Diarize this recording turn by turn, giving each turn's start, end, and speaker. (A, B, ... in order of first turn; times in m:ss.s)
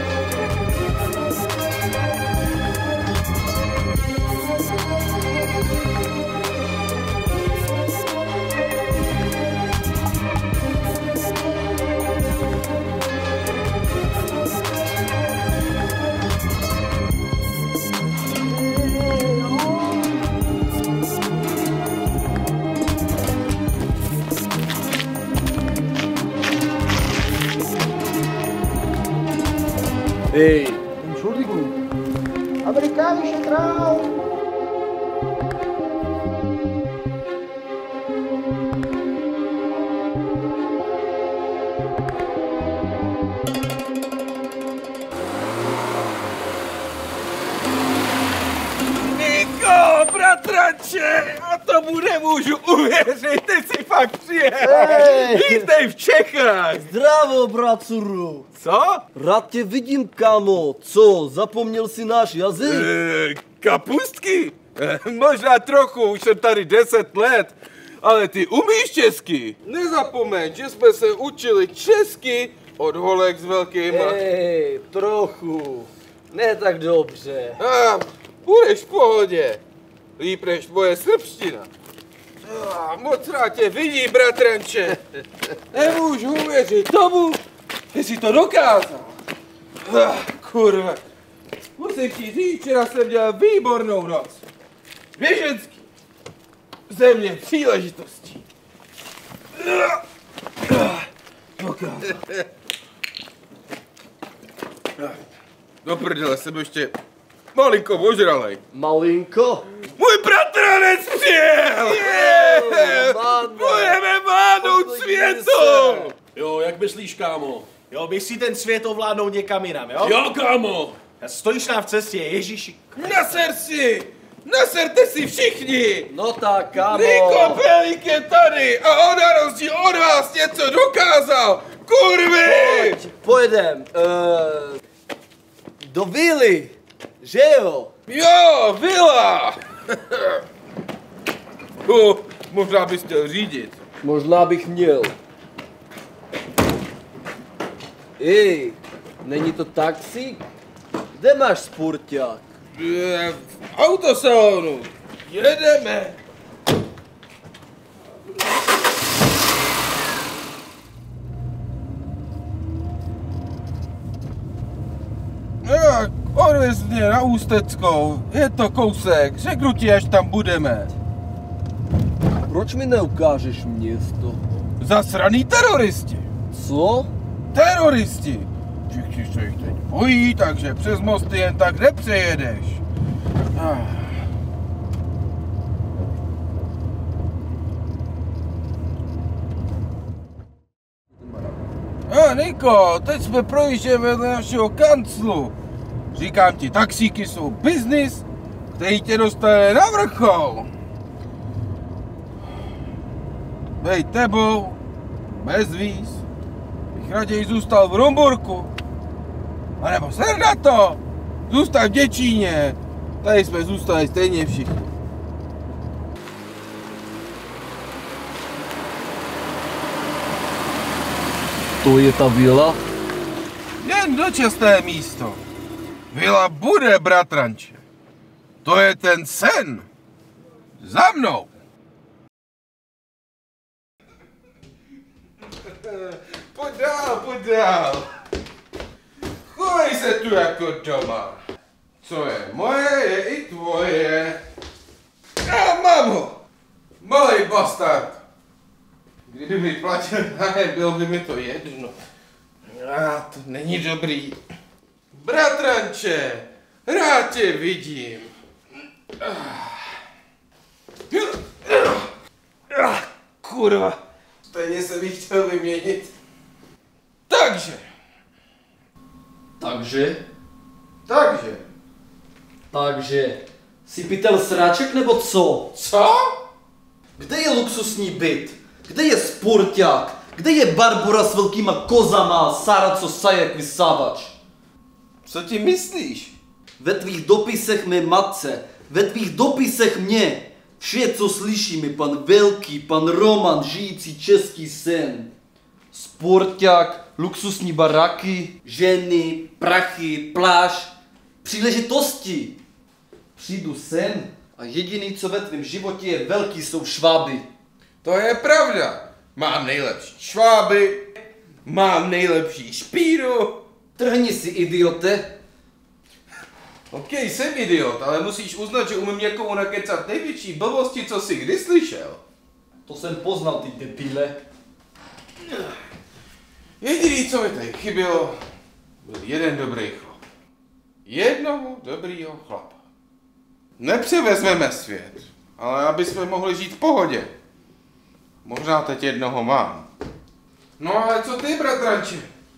0:30.3-0:30.8 A
0:31.1-0:31.7 B
0:32.7-0:34.1 B
0:48.9-0:56.9 C
0:54.6-0:55.7 A
0:56.8-0:58.5 A
0:58.6-0:59.1 C
0:59.1-1:02.9 A
1:02.6-1:14.2 C
1:13.9-1:17.6 A
1:17.6-1:19.6 C
1:20.2-1:21.7 C
1:22.4-1:25.0 C
1:25.7-1:27.4 C
1:27.9-1:29.2 C
1:29.8-1:31.0 C
1:31.8-1:34.4 C
1:35.2-1:35.8 C
1:36.9-1:38.4 C
1:39.6-1:40.0 C
1:40.7-1:41.1 C
1:41.6-1:42.5 C
1:45.8-1:47.0 C
1:47.5-1:48.6 C
1:48.7-1:49.6 A
1:50.0-1:56.3 C
1:51.8-1:54.0 A
1:54.6-1:56.1 A
1:56.2-2:02.9 B
2:00.0-2:00.8 C
2:02.9-2:06.1 C
2:06.1-2:07.6 A
2:06.8-2:13.0 C
2:12.4-2:14.8 A
2:15.8-2:17.9 A
2:18.1-2:20.4 C
2:21.8-2:23.8 C
2:24.0-2:25.1 A
2:28.2-2:30.5 A
2:31.1-2:32.4 A
2:32.8-2:36.2 C
2:45.6-2:50.9 C
2:52.5-2:54.4 A
2:54.8-2:56.2 C
2:56.5-2:57.1 A
2:57.5-3:02.8 C
3:03.6-3:04.2 C
3:12.1-3:15.5 C
3:16.1-3:20.7 C
3:23.8-3:26.2 C
3:26.9-3:28.7 C
3:29.8-3:34.9 C
3:41.8-3:42.8 A
3:43.8-3:45.4 C
3:46.1-3:47.8 C
3:48.6-3:49.9 C
3:50.8-3:51.5 C
3:55.6-3:58.2 C
3:59.5-4:01.4 C
4:02.0-4:04.4 C
4:05.4-4:06.4 C
4:07.0-4:08.2 C
4:09.3-4:12.0 C
4:12.7-4:14.4 C
4:15.1-4:18.3 C
4:19.2-4:20.0 C
4:21.1-4:22.1 C
4:22.7-4:26.1 C
4:27.3-4:27.8 C
4:29.6-4:30.2 A
4:31.1-4:31.7 C
4:32.7-4:35.8 A
4:35.8-4:36.4 C
4:37.2-4:44.4 A
4:45.2-4:46.3 C
4:46.8-4:55.3 A
4:55.9-5:00.9 A
5:01.4-5:02.6 A
5:03.4-5:07.5 A
5:08.0-5:11.1 C
5:11.6-5:13.6 C
5:14.0-5:15.4 A
5:16.9-5:22.2 C
5:22.9-5:24.4 A
5:25.5-5:25.7 C
5:26.8-5:28.4 C
5:29.0-5:30.2 C
5:31.1-5:32.8 C
5:33.8-5:37.3 C
5:38.4-5:39.9 C
5:40.8-5:42.3 C